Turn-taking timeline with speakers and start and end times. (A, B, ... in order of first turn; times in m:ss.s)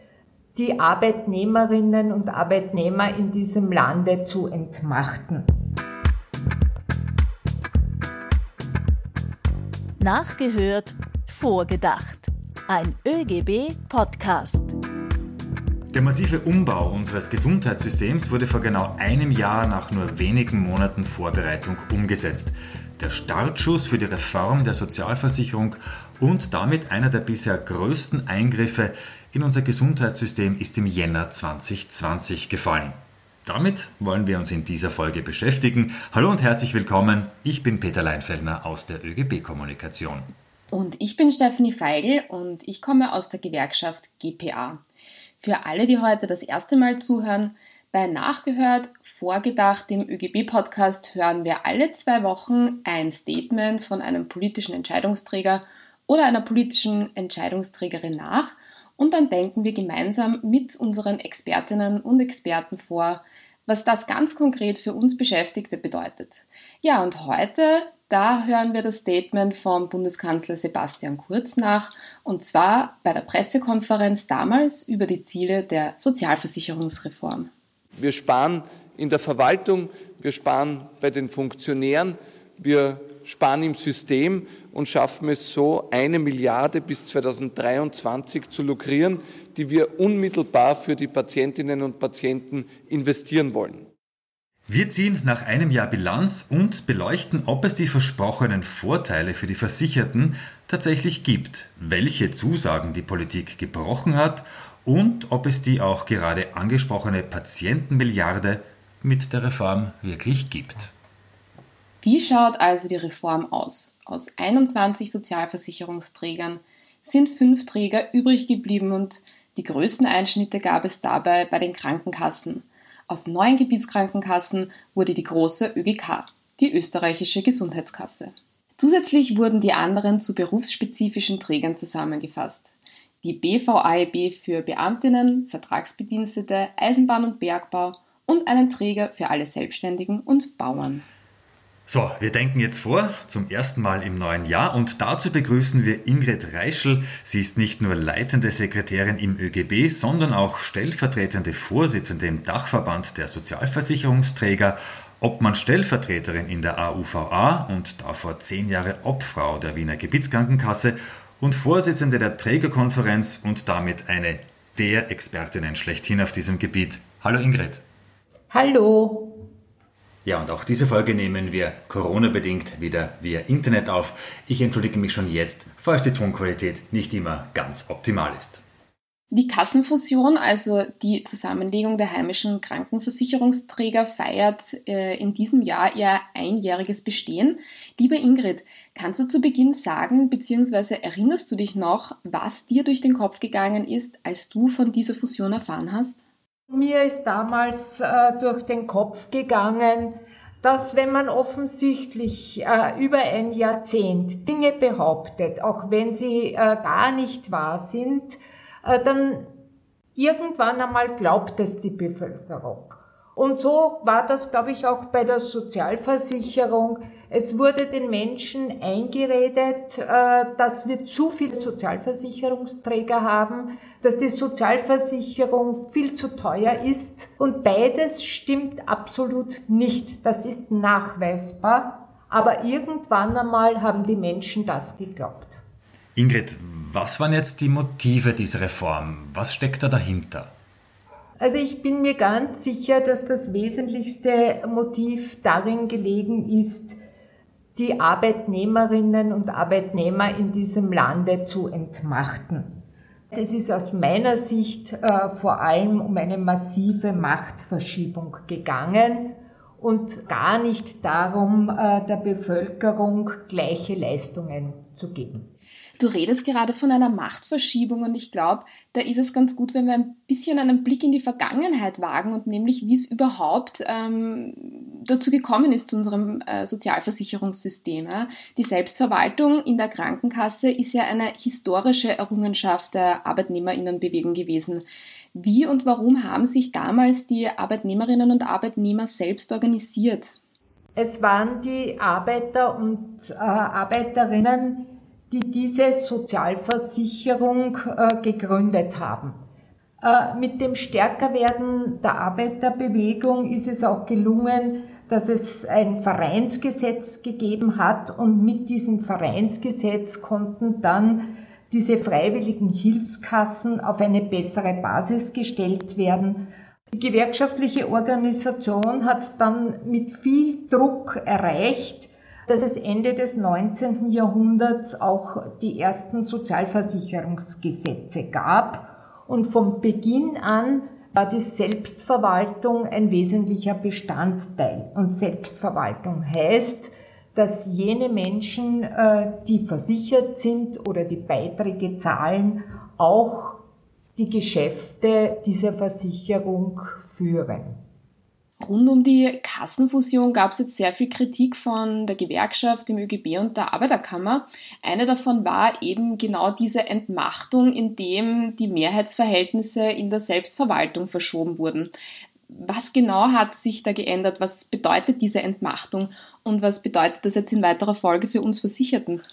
0:00.6-0:05.5 A
0:10.0-0:14.8 B
0:15.9-0:40.3 C
0:40.7-0:44.8 D
0:45.4-1:17.5 D
1:18.0-1:33.9 E
1:34.7-1:50.9 C
1:52.0-2:21.0 D
2:21.9-2:47.8 C
2:48.5-2:49.4 A
2:50.2-2:58.6 C
2:59.3-3:16.2 D
3:16.7-3:29.5 A
3:30.2-3:55.6 A
3:56.2-4:00.5 C
4:01.4-4:07.0 A
4:07.8-4:12.7 A
4:13.3-4:25.5 A
4:26.0-4:50.3 D
4:51.0-4:59.4 A
5:00.0-5:43.6 A
5:44.2-5:47.8 A
5:48.6-6:01.9 D
6:02.5-6:09.2 D